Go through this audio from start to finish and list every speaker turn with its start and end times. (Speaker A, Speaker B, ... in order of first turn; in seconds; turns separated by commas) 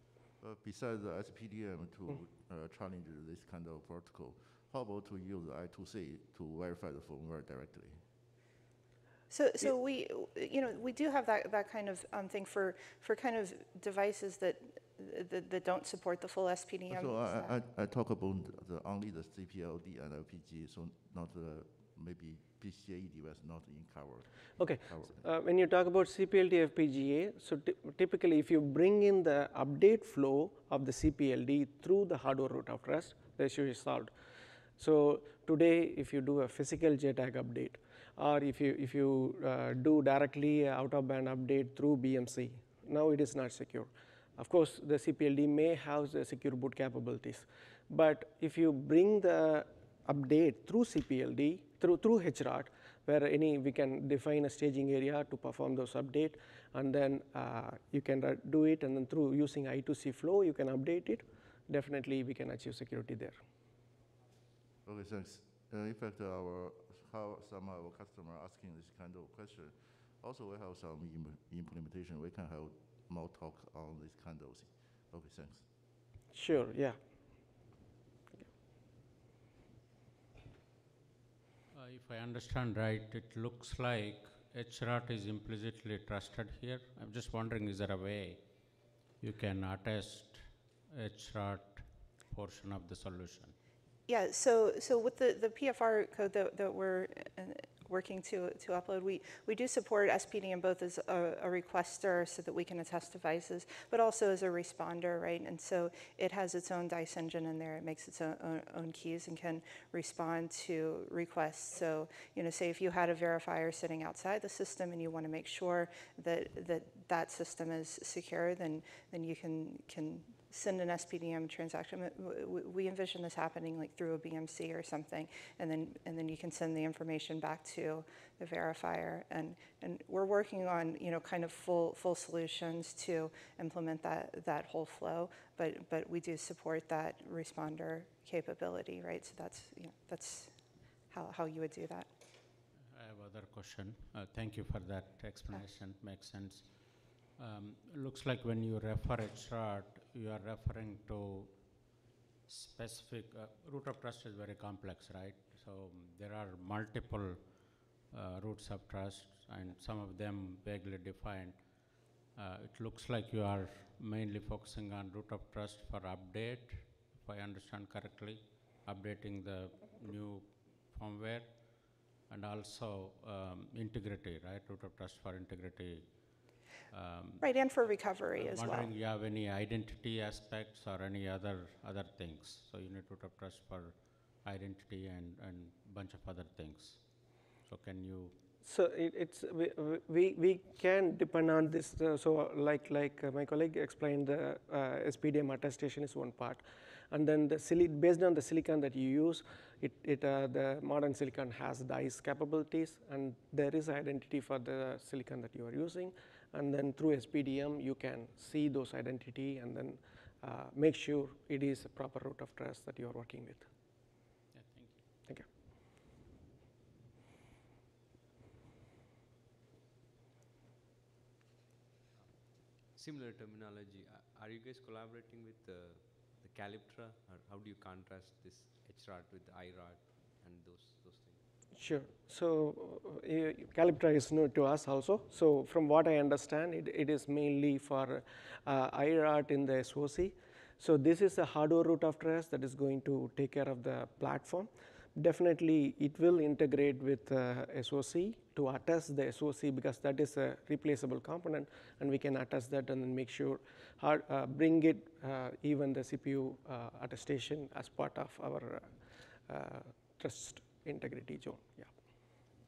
Speaker A: 0.4-8.0, Speaker B: 9.3-17.5, Speaker A: 16.9-25.3, Speaker C: 24.6-34.1, Speaker C: 34.8-63.4, Speaker A: 64.8-75.6, Speaker C: 76.3-77.0, Speaker D: 81.7-88.5, Speaker D: 89.2-93.5, Speaker B: 94.1-142.1, Speaker D: 142.9-151.7, Speaker D: 152.5-176.3, Speaker D: 176.9-177.5, Speaker B: 177.4-178.9, Speaker D: 178.3-188.4, Speaker C: 188.6-213.7, Speaker D: 214.5-215.0, Speaker E: 222.1-231.4, Speaker C: 231.7-261.9